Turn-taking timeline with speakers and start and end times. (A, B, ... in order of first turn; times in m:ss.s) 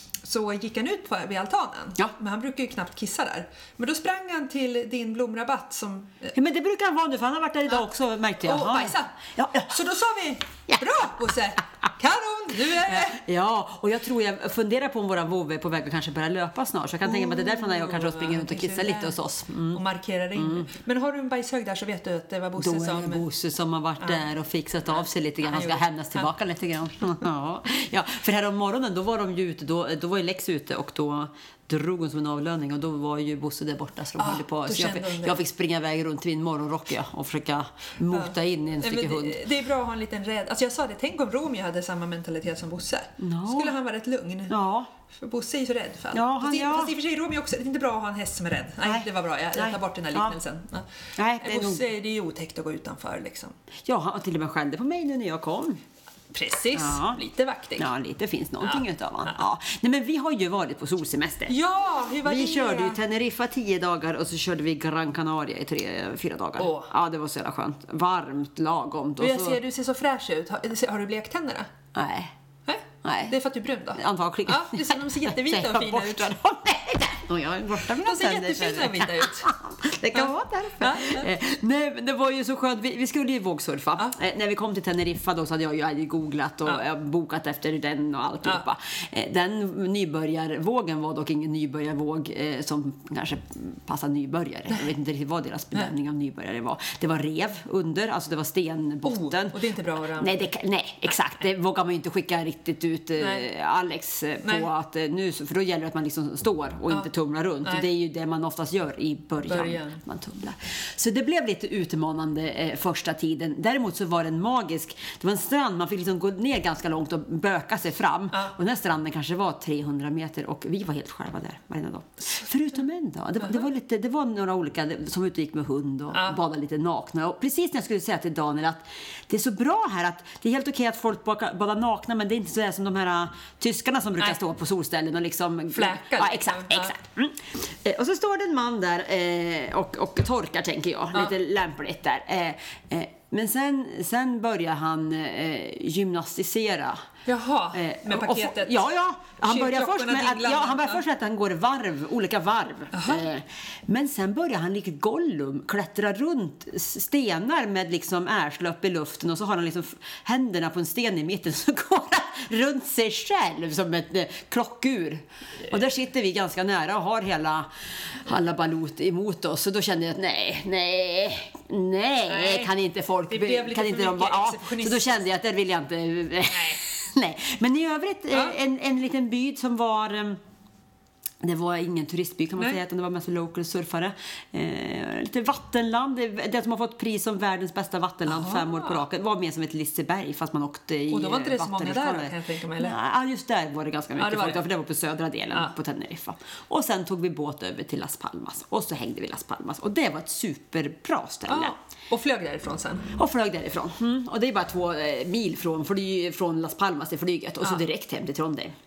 0:00.2-0:06.4 A
0:06.4-0:09.7 B
0:08.4-0:13.2 A
0:12.7-0:19.8 B
0:17.0-0:19.2 A
0:19.7-0:23.2 A
0:20.4-0:20.7 B
0:22.6-0:39.4 B
0:25.0-0:26.3 A
0:34.2-0:35.4 A
0:38.1-0:44.5 A
0:43.2-0:43.8 B
0:44.5-0:44.9 B
0:45.1-0:50.9 A
0:46.1-0:46.9 B
0:48.8-0:50.4 B
0:51.2-0:51.9 B
0:51.4-0:53.6 A
0:53.8-0:55.8 B
0:56.3-0:57.9 A
0:56.7-0:57.2 B
0:57.8-1:01.6 B
0:58.6-0:59.4 A
1:01.5-1:03.0 A
1:02.2-1:09.6 B
1:06.6-1:06.9 A
1:09.2-1:11.7 A
1:11.9-1:12.3 B
1:12.7-1:16.3 A
1:13.0-1:13.3 B
1:14.0-1:39.6 B
1:17.9-1:19.5 A
1:20.1-1:21.3 A
1:39.0-1:40.5 A
1:40.2-2:27.1 B
1:43.2-1:43.5 A
1:44.4-1:44.7 A
1:49.5-1:50.0 A
2:06.1-2:06.4 A
2:15.7-2:17.0 A
2:27.3-2:28.9 A
2:27.7-3:00.4 B
2:29.4-2:31.0 A
2:32.9-2:33.3 A
2:52.3-2:52.7 A
2:53.3-2:55.2 A
2:56.5-2:56.8 A
2:58.3-2:58.6 A
3:01.4-3:21.7 B
3:08.3-3:09.0 A
3:11.1-3:13.0 A
3:14.2-3:14.6 A
3:21.5-3:23.1 A
3:23.1-3:28.8 B